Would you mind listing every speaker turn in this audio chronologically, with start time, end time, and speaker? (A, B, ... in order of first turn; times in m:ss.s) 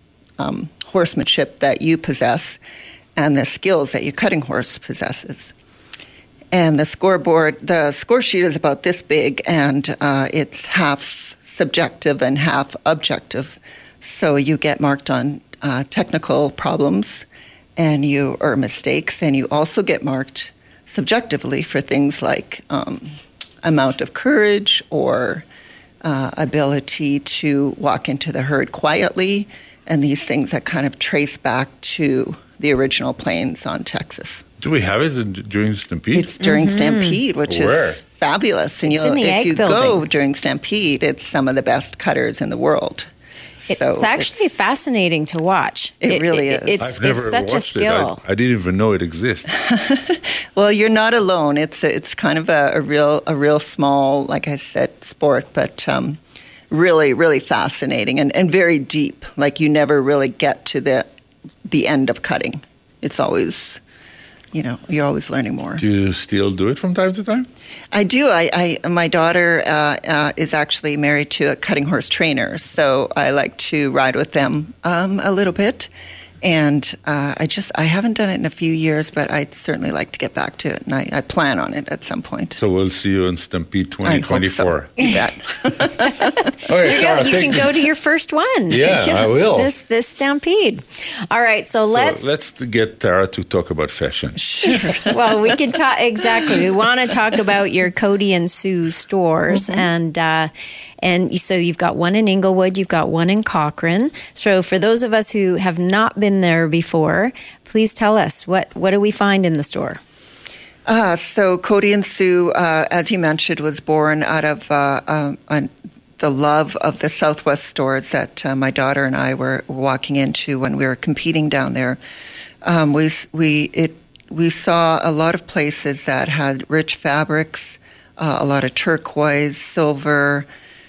0:00.4-0:02.6 A
0:03.2-0:05.5 A
0:06.5-0:17.3 A
0:17.8-0:25.5 A
0:26.0-0:34.4 A
0:34.6-0:36.3 B
0:36.1-0:43.1 A
0:36.4-0:37.2 C
0:37.5-0:38.0 B
0:38.9-0:40.1 C
0:43.6-0:44.4 A
0:43.7-0:48.2 C
0:46.0-0:46.9 A
0:46.8-0:49.5 B
0:49.6-1:01.1 A
1:01.7-1:03.8 A
1:04.5-1:05.8 A
1:05.8-1:07.5 B
1:07.9-1:15.9 A
1:16.4-1:22.6 A
1:22.6-1:25.2 B
1:24.0-1:26.3 A
1:26.6-1:27.7 B
1:26.8-1:32.2 C
1:28.7-1:29.7 B
1:31.9-1:34.4 B
1:34.4-1:35.3 A
1:35.0-1:40.5 C
1:39.5-1:39.9 A
1:41.0-1:50.0 C
1:50.9-2:02.0 A
2:02.6-2:10.5 A